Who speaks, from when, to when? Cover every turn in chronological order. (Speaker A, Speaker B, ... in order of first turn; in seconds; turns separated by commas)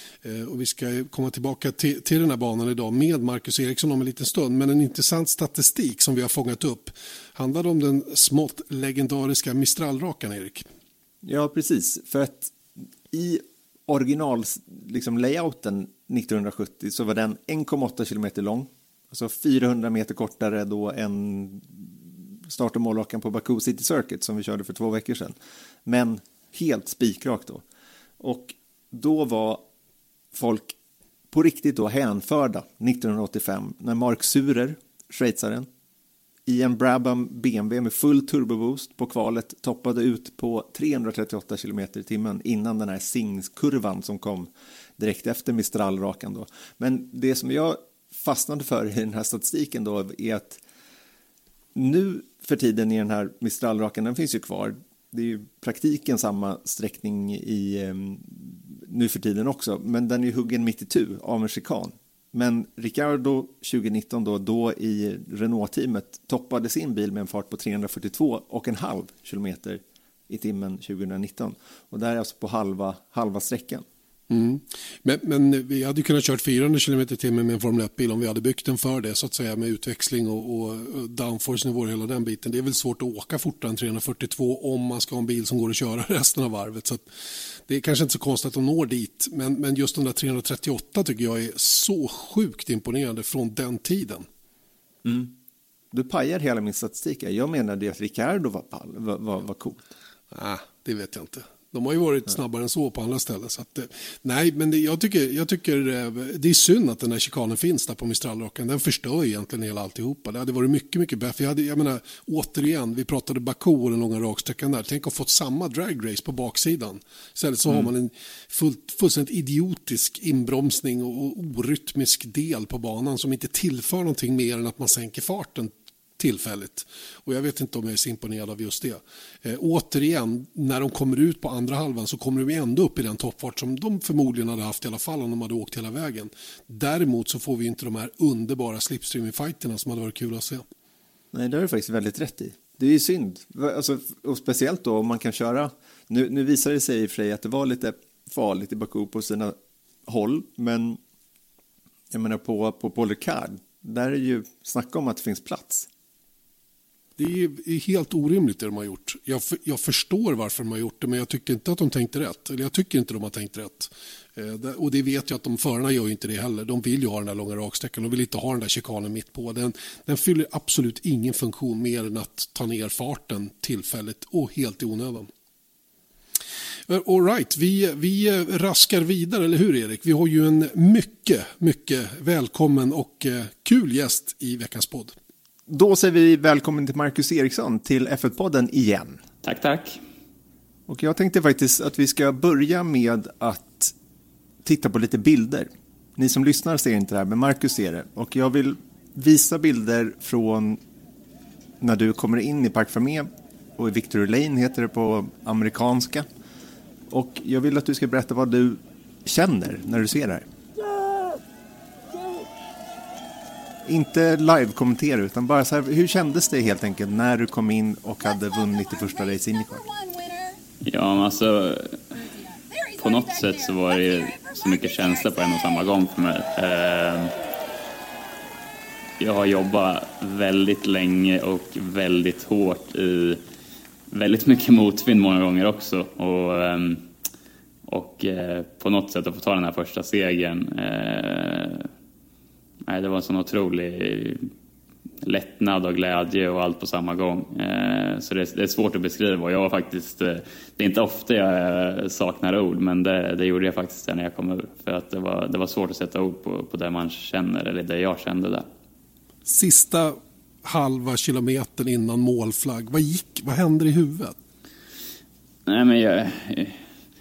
Speaker A: 0.2-10.7, Speaker B: 11.2-22.0, Speaker B: 22.5-25.3, Speaker B: 25.9-27.6, Speaker B: 28.2-29.6, Speaker B: 30.3-30.8, Speaker B: 31.3-35.7, Speaker B: 36.5-50.6, Speaker B: 51.7-73.8, Speaker A: 74.3-87.0, Speaker A: 87.7-94.2, Speaker B: 95.0-95.3, Speaker B: 95.9-99.8, Speaker A: 100.3-140.6, Speaker B: 141.3-149.5, Speaker B: 150.1-151.0, Speaker B: 152.1-155.9, Speaker A: 157.2-175.3, Speaker A: 176.9-185.1, Speaker B: 185.7-189.2, Speaker C: 189.4-190.0, Speaker B: 190.9-193.9, Speaker B: 194.6-200.8, Speaker B: 201.8-206.2, Speaker B: 207.1-210.4, Speaker B: 213.8-219.9, Speaker C: 220.8-222.0, Speaker C: 222.8-227.3, Speaker C: 229.2-233.4, Speaker C: 234.1-237.0, Speaker C: 237.9-241.9, Speaker C: 242.9-244.5, Speaker C: 245.2-258.7, Speaker A: 259.4-264.3, Speaker C: 265.7-266.8